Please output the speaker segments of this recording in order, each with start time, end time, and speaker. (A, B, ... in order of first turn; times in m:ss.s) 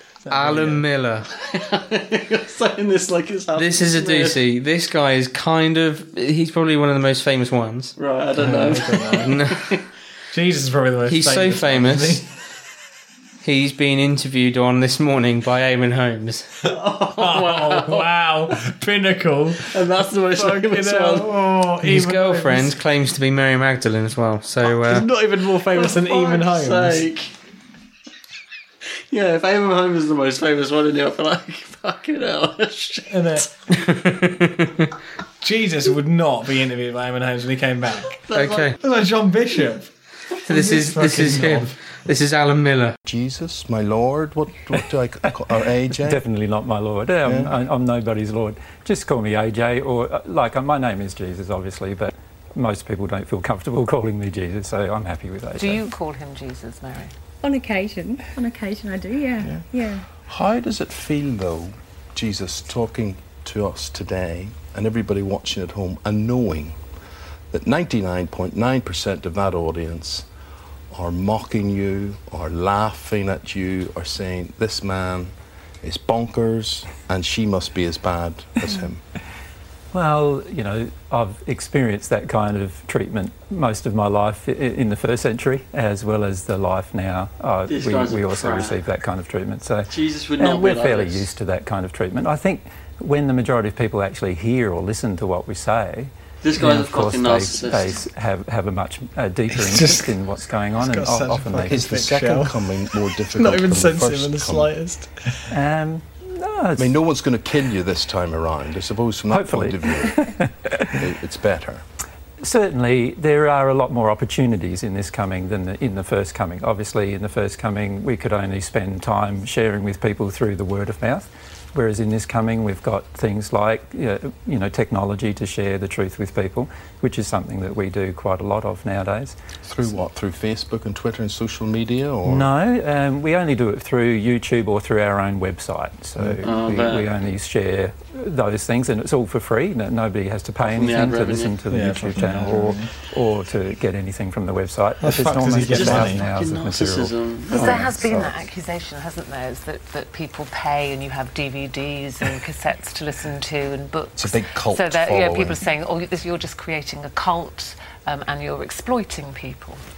0:00.2-0:00.8 A
0:00.3-0:01.3 B
0:01.4-0:04.4 C
0:03.6-0:07.9 B
0:08.0-0:09.8 C
0:08.4-0:09.4 A
0:09.2-0:09.7 B
0:10.3-0:12.3 A
0:11.1-0:12.2 B
0:13.4-0:16.5 B
0:16.7-0:18.1 C
0:17.0-0:22.8 A
0:19.7-0:21.3 C
0:21.8-0:25.1 B
0:24.6-0:27.1 A
0:25.7-0:27.3 C
0:29.1-0:33.5 C
0:33.1-0:33.5 A
0:33.8-0:34.9 B
0:35.4-0:38.1 A
0:38.2-0:38.7 C
0:38.3-0:38.8 B
0:38.8-0:39.9 A
0:40.5-0:41.8 A
0:40.5-0:43.0 B
0:43.0-0:46.2 D
0:46.0-0:55.9 E
0:47.2-0:47.5 D
0:55.6-0:57.1 F
0:57.4-1:00.1 G
1:00.2-1:06.8 D
1:07.5-1:10.3 D
1:10.9-1:19.0 D
1:19.9-1:41.9 E
1:27.7-1:28.8 C
1:29.9-1:31.3 C
1:36.4-1:38.0 C
1:39.5-1:40.2 A
1:40.8-1:45.4 A
1:41.7-1:44.7 D
1:45.5-1:47.0 E
1:46.8-1:50.3 D
1:49.3-1:50.9 E
1:51.0-1:51.8 D
1:52.4-2:10.1 E
2:09.6-2:12.5 D
2:12.3-2:28.4 E
2:16.4-2:17.1 C
2:20.6-2:21.6 C
2:21.7-2:22.9 A
2:25.0-2:26.3 A
2:25.7-2:27.8 C
2:27.6-2:39.8 F
2:34.2-2:35.6 D